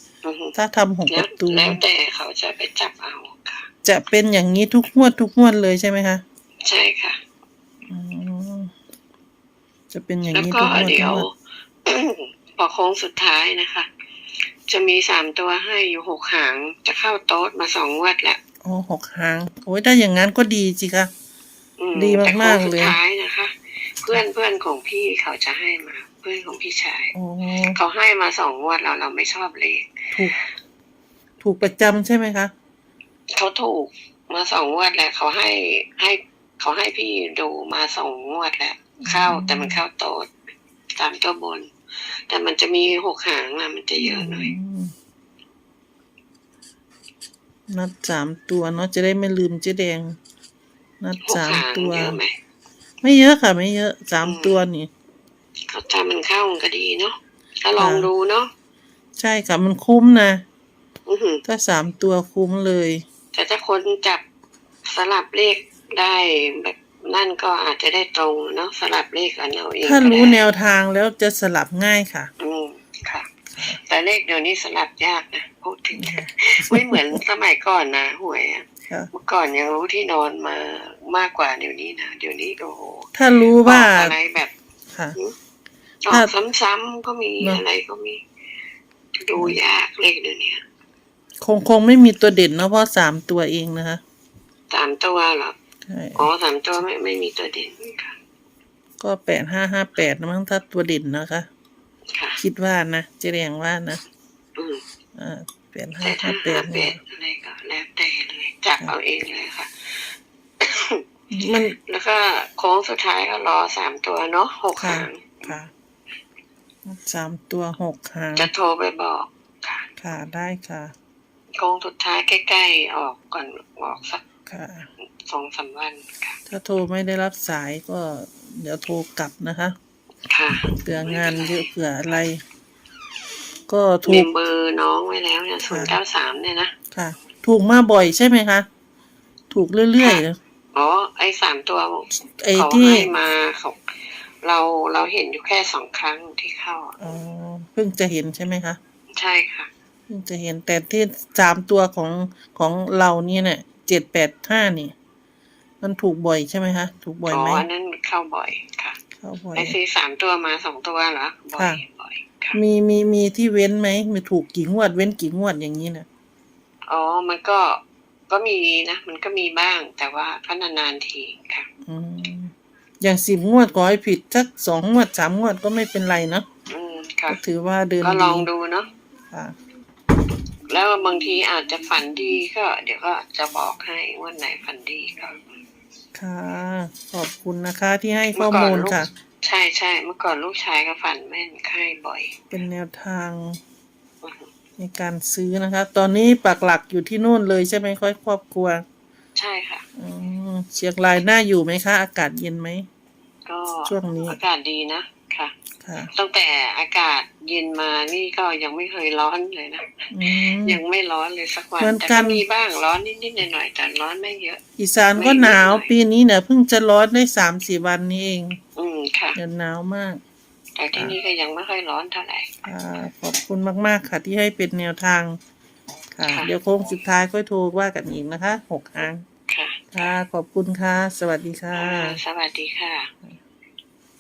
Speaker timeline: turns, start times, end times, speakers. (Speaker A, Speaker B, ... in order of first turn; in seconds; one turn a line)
Speaker A: 0.2-0.6
Speaker B: 0.6-1.8
Speaker A: 1.1-3.7
Speaker B: 3.9-6.2
Speaker A: 6.6-7.2
Speaker B: 7.9-8.7
Speaker B: 9.9-11.3
Speaker A: 10.3-11.3
Speaker A: 11.9-13.9
Speaker A: 14.7-18.4
Speaker B: 18.6-21.1
Speaker A: 21.8-27.1
Speaker B: 21.9-23.0
Speaker B: 27.1-27.8
Speaker A: 27.7-30.4
Speaker B: 31.4-32.5
Speaker A: 33.3-40.3
Speaker B: 39.0-39.8
Speaker A: 41.0-44.5
Speaker B: 44.0-44.9
Speaker B: 47.7-50.1
Speaker B: 51.0-52.2
Speaker A: 51.2-52.3
Speaker B: 53.0-54.9
Speaker A: 54.2-54.6
Speaker A: 55.7-58.5
Speaker B: 57.8-58.1
Speaker B: 59.2-60.4
Speaker A: 61.1-61.4
Speaker B: 61.5-63.0
Speaker A: 63.3-64.2
Speaker A: 64.9-70.4
Speaker B: 69.8-72.3
Speaker A: 72.4-83.1
Speaker B: 76.0-77.2
Speaker B: 83.1-84.2
Speaker A: 83.6-84.5
Speaker A: 86.0-88.2
Speaker A: 89.2-90.6
Speaker B: 91.4-94.0
Speaker A: 94.7-95.6
Speaker B: 95.9-96.3
Speaker A: 96.2-98.1
Speaker B: 99.0-101.5
Speaker A: 102.1-102.4
Speaker B: 102.4-104.0
Speaker A: 104.6-104.8
Speaker B: 105.2-107.0
Speaker A: 106.0-111.0
Speaker B: 111.3-111.8
Speaker A: 111.9-115.6
Speaker B: 114.8-115.7
Speaker B: 116.9-118.5
Speaker A: 118.4-119.9
Speaker B: 120.0-120.9
Speaker A: 121.6-124.2
Speaker B: 124.5-124.9
Speaker A: 125.0-126.4
Speaker B: 126.5-129.8
Speaker A: 130.2-132.2
Speaker B: 130.7-132.4
Speaker B: 133.7-134.3
Speaker A: 134.0-136.7
Speaker B: 135.7-136.0
Speaker B: 136.9-138.7
Speaker B: 139.5-140.3
Speaker A: 140.7-143.8
Speaker B: 142.2-143.1
Speaker A: 144.4-147.0
Speaker B: 147.0-148.8
Speaker A: 149.1-149.7
Speaker B: 150.1-154.9
Speaker B: 155.8-157.7
Speaker A: 157.3-159.0
Speaker B: 159.2-159.8
Speaker A: 159.5-162.6
Speaker B: 161.6-161.8
Speaker B: 162.5-166.1
Speaker A: 166.9-171.7
Speaker B: 171.9-176.4
Speaker A: 176.7-177.4
Speaker B: 177.3-178.5
Speaker A: 178.0-178.9
Speaker A: 180.7-185.4
Speaker B: 186.2-189.1
Speaker A: 188.3-192.3
Speaker B: 192.5-193.6
Speaker A: 194.2-194.5
Speaker B: 194.8-198.8
Speaker A: 199.4-199.8
Speaker B: 200.0-202.8
Speaker A: 203.5-205.5
Speaker B: 203.9-204.4
Speaker B: 205.8-206.1
Speaker A: 206.1-214.6
Speaker B: 210.1-210.8
Speaker B: 211.8-212.4
Speaker B: 214.8-218.5
Speaker A: 215.2-215.9
Speaker A: 218.8-219.4
Speaker B: 219.4-220.2
Speaker A: 220.8-222.5
Speaker B: 222.6-225.4
Speaker B: 226.1-229.2
Speaker A: 226.2-226.5
Speaker A: 229.5-230.1
Speaker B: 229.9-232.2
Speaker A: 231.7-233.1